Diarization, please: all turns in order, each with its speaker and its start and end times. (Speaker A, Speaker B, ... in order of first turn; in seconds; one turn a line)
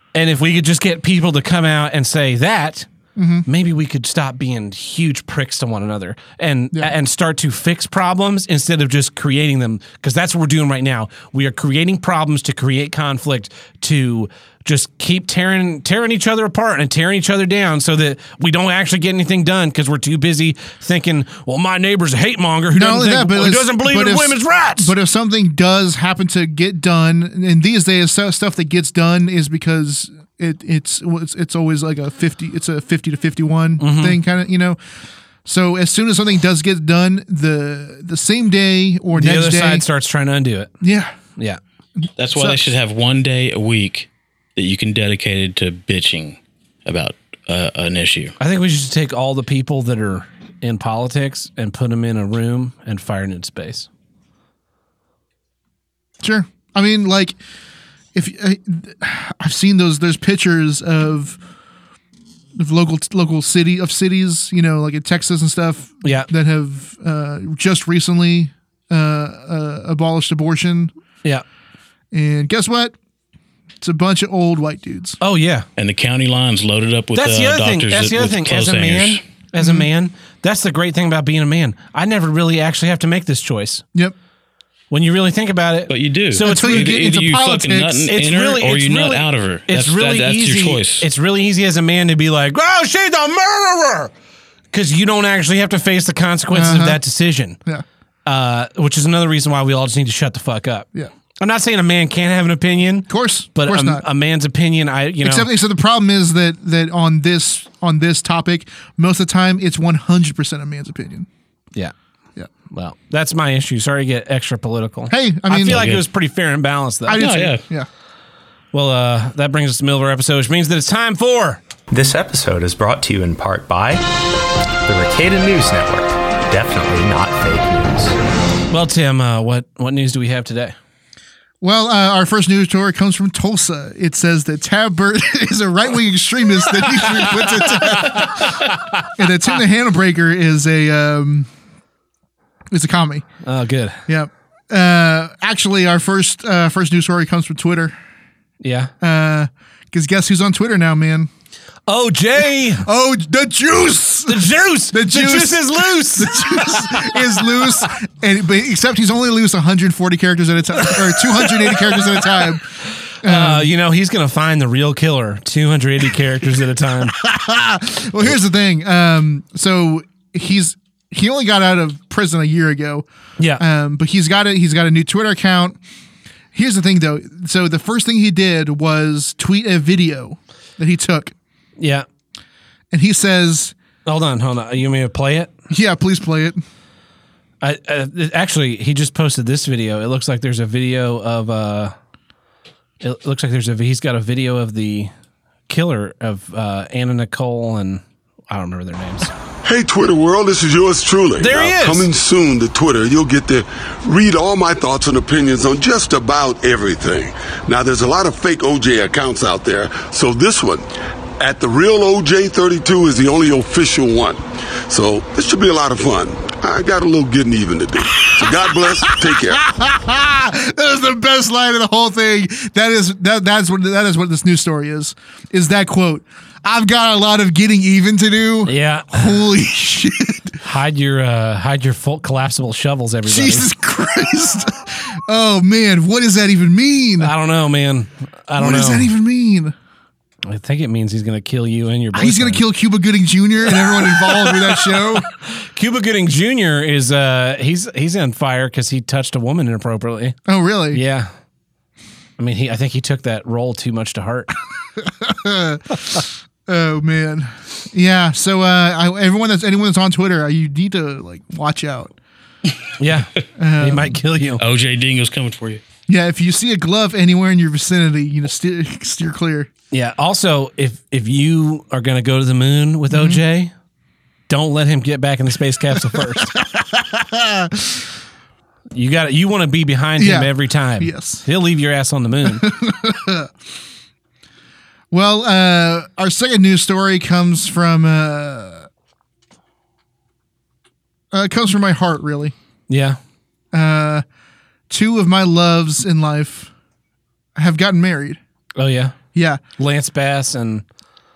Speaker A: 0.1-2.9
Speaker B: 3.2-3.5
Speaker A: 3.5-24.9
Speaker B: 22.7-34.8
Speaker A: 33.8-34.2
Speaker B: 35.5-39.9
Speaker A: 39.1-40.7
Speaker B: 40.8-41.2
Speaker B: 42.0-42.6
Speaker C: 42.2-48.4
Speaker A: 48.4-53.9
Speaker B: 56.2-57.4
Speaker B: 58.1-61.4
Speaker B: 62.6-70.9
Speaker A: 66.0-66.3
Speaker B: 72.1-73.0
Speaker B: 73.8-75.2
Speaker A: 75.2-75.7
Speaker C: 75.8-79.2
Speaker A: 77.1-83.8
Speaker B: 79.6-79.9
Speaker A: 84.9-86.9
Speaker C: 85.9-91.1
Speaker B: 86.4-88.1
Speaker A: 88.1-94.1
Speaker A: 94.7-97.6
Speaker B: 96.5-97.0
Speaker A: 98.3-100.9
Speaker A: 101.4-105.5
Speaker B: 103.1-104.0
Speaker B: 105.2-111.3
Speaker A: 112.7-117.4
Speaker B: 115.1-115.9
Speaker C: 115.7-116.0
Speaker B: 117.1-117.9
Speaker C: 117.2-117.6
Speaker A: 118.7-121.6
Speaker D: 121.9-124.1
Speaker D: 124.8-128.2
Speaker A: 128.7-130.8
Speaker B: 131.6-138.6
Speaker A: 137.0-139.1
Speaker B: 139.2-141.5
Speaker B: 142.7-143.3
Speaker A: 143.4-144.0
Speaker B: 144.1-147.9
Speaker A: 148.6-148.9
Speaker B: 149.0-151.3
Speaker A: 151.9-152.9
Speaker B: 152.8-162.7
Speaker A: 154.3-157.4
Speaker A: 160.9-162.4
Speaker B: 163.2-163.7
Speaker A: 163.2-167.2
Speaker B: 167.1-173.1
Speaker A: 173.4-173.6
Speaker B: 173.6-175.8
Speaker B: 176.5-181.3
Speaker A: 181.8-182.1
Speaker B: 182.9-183.8
Speaker A: 184.1-185.5
Speaker B: 185.7-186.6
Speaker A: 187.6-191.9
Speaker A: 193.0-195.1
Speaker A: 195.7-199.3
Speaker E: 199.7-210.9
Speaker A: 201.4-202.1
Speaker E: 211.4-219.6
Speaker B: 218.2-230.6
Speaker A: 228.7-229.4
Speaker A: 230.6-233.7
Speaker B: 233.3-237.3
Speaker A: 237.2-239.1
Speaker B: 238.6-239.7
Speaker A: 240.5-242.6
Speaker B: 242.1-245.3
Speaker A: 243.8-250.4
Speaker B: 250.5-251.0
Speaker A: 250.9-251.3
Speaker A: 252.4-254.5
Speaker B: 255.0-262.1
Speaker A: 263.0-264.6
Speaker B: 263.6-264.2
Speaker C: 264.6-265.8
Speaker B: 266.1-269.7
Speaker A: 269.9-273.7
Speaker B: 273.1-273.4
Speaker A: 274.5-276.5
Speaker B: 276.6-278.0
Speaker A: 278.9-282.7
Speaker B: 280.2-281.5
Speaker B: 282.4-283.5
Speaker B: 285.1-288.9
Speaker B: 291.3-292.5
Speaker A: 292.9-293.2
Speaker B: 293.7-294.2
Speaker B: 294.9-296.7
Speaker B: 297.6-298.4
Speaker A: 298.8-299.2
Speaker B: 299.3-299.6
Speaker A: 299.8-300.9